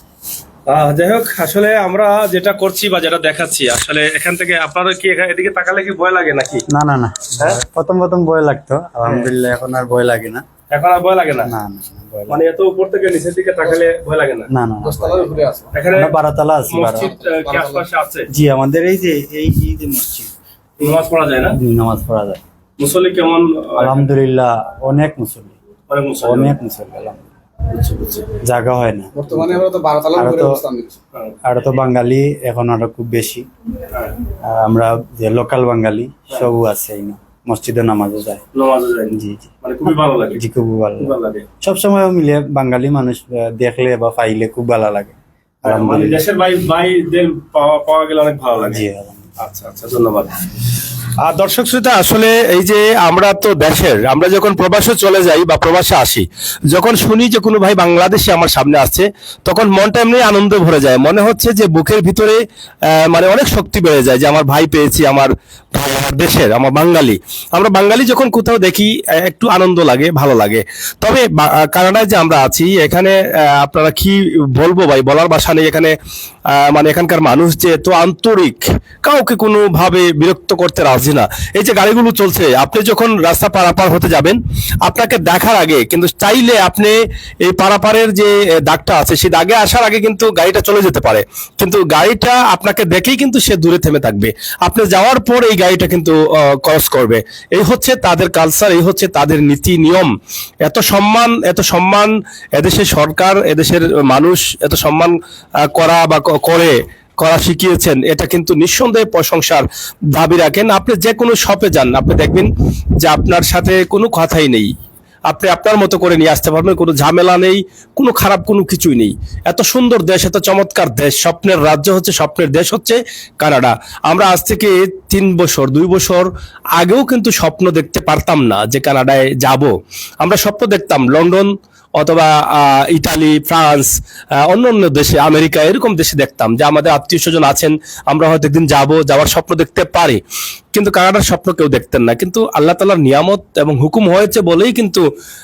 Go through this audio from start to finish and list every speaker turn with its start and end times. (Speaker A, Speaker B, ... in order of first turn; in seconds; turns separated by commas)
Speaker A: 0.7-6.6, Speaker B: 6.7-10.4, Speaker A: 9.0-9.3, Speaker A: 10.7-11.5, Speaker B: 11.4-12.4, Speaker A: 12.3-14.5, Speaker B: 14.5-15.4, Speaker C: 14.8-15.7, Speaker A: 15.7-16.1, Speaker B: 15.9-17.1, Speaker A: 16.7-18.3, Speaker C: 16.9-17.8, Speaker B: 18.3-20.3, Speaker A: 20.8-21.6, Speaker B: 21.6-22.4, Speaker A: 22.8-24.0, Speaker B: 23.8-25.5, Speaker A: 25.9-26.5, Speaker B: 26.2-27.2, Speaker A: 27.7-28.3, Speaker B: 28.4-29.6, Speaker C: 29.1-31.0, Speaker B: 30.1-30.6, Speaker B: 31.4-33.5, Speaker B: 34.4-38.4, Speaker A: 38.5-40.4, Speaker B: 39.1-46.2, Speaker A: 41.0-41.4, Speaker A: 45.6-48.8, Speaker B: 48.6-49.2, Speaker A: 49.4-50.4, Speaker A: 51.2-76.0, Speaker A: 76.5-100.1, Speaker A: 100.6-105.1, Speaker A: 105.7-112.5, Speaker A: 113.0-114.7, Speaker A: 115.3-133.9, Speaker A: 134.4-140.2, Speaker A: 140.7-145.1